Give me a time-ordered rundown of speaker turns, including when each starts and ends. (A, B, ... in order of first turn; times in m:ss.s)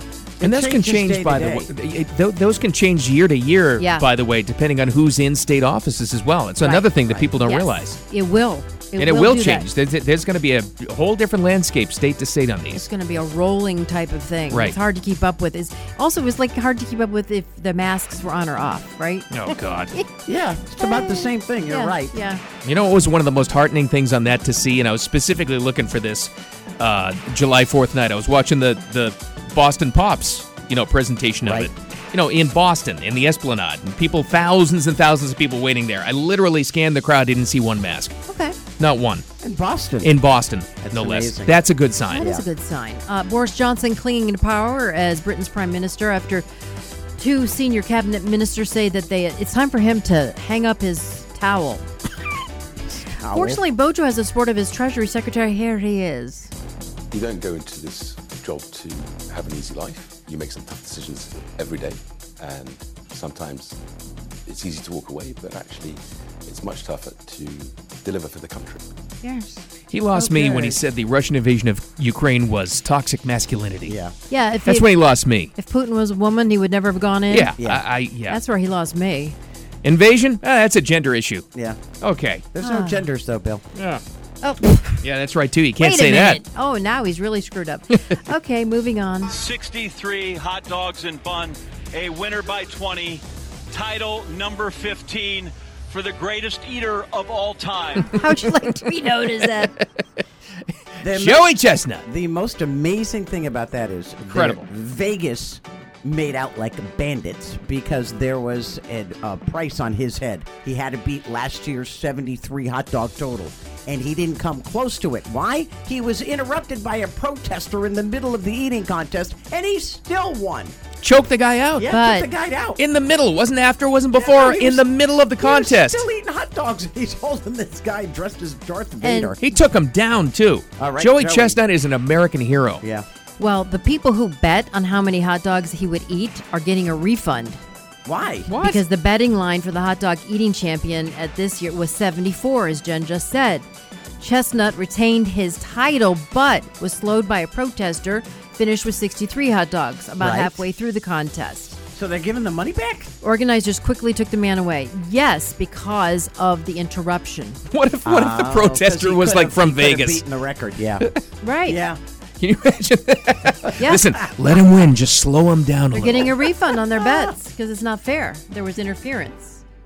0:00.4-0:01.7 A
0:00.4-0:08.0 B
0:03.8-0:04.1 C
0:06.6-0:09.7 C
0:09.0-0:12.8 B
0:12.7-0:19.3 C
0:14.5-0:14.8 B
0:19.3-0:19.9 B
0:19.9-0:20.2 C
0:20.2-0:22.2 A
0:20.8-0:22.4 C
0:22.6-0:38.1 B
0:31.4-0:31.7 A
0:38.2-0:38.6 C
0:38.8-0:39.2 B
0:39.4-0:40.2 A
0:40.0-0:42.3 B
0:40.8-0:41.6 A
0:42.1-0:46.4 C
0:42.2-0:42.4 A
0:47.2-0:51.9 C
0:52.9-0:53.6 A
0:53.2-0:56.5 C
0:57.1-1:03.8 D
1:04.4-1:08.8 D
1:09.2-1:09.6 C
1:09.9-1:14.0 B
1:10.4-1:10.7 C
1:13.8-1:14.1 A
1:14.3-1:15.0 C
1:14.6-1:15.5 B
1:15.5-1:17.5 C
1:17.3-1:18.4 B
1:17.6-1:17.8 A
1:18.3-1:19.4 C
1:19.8-1:21.4 B
1:21.5-1:21.8 A
1:22.0-1:22.4 B
1:22.5-1:23.6 A
1:22.6-1:23.0 C
1:23.8-1:24.0 B
1:24.4-1:25.0 C
1:25.0-1:26.4 B
1:25.8-1:29.4 C
1:29.3-1:38.2 E
1:38.1-1:39.7 C
1:41.0-1:42.0 B
1:41.0-2:00.7 A
1:44.3-1:44.7 B
2:01.0-2:01.9 B
2:01.8-2:02.8 A
2:01.9-2:02.3 C
2:02.8-2:06.0 B
2:04.1-2:04.9 A
2:05.4-2:09.4 A
2:09.0-2:09.4 C
2:09.4-2:12.8 B
2:10.8-2:11.6 A
2:13.4-2:17.6 C
2:18.0-2:18.5 A
2:18.5-2:18.8 B
2:18.6-2:23.7 C
2:24.2-2:31.8 C
2:30.2-2:30.6 A
2:31.9-2:33.1 A
2:33.2-2:37.6 C
2:37.7-2:40.2 B
2:38.0-2:41.1 A
2:41.4-2:41.8 C
2:41.6-2:42.0 A
2:42.4-2:46.5 B
2:43.8-2:44.0 C
2:45.9-2:49.6 C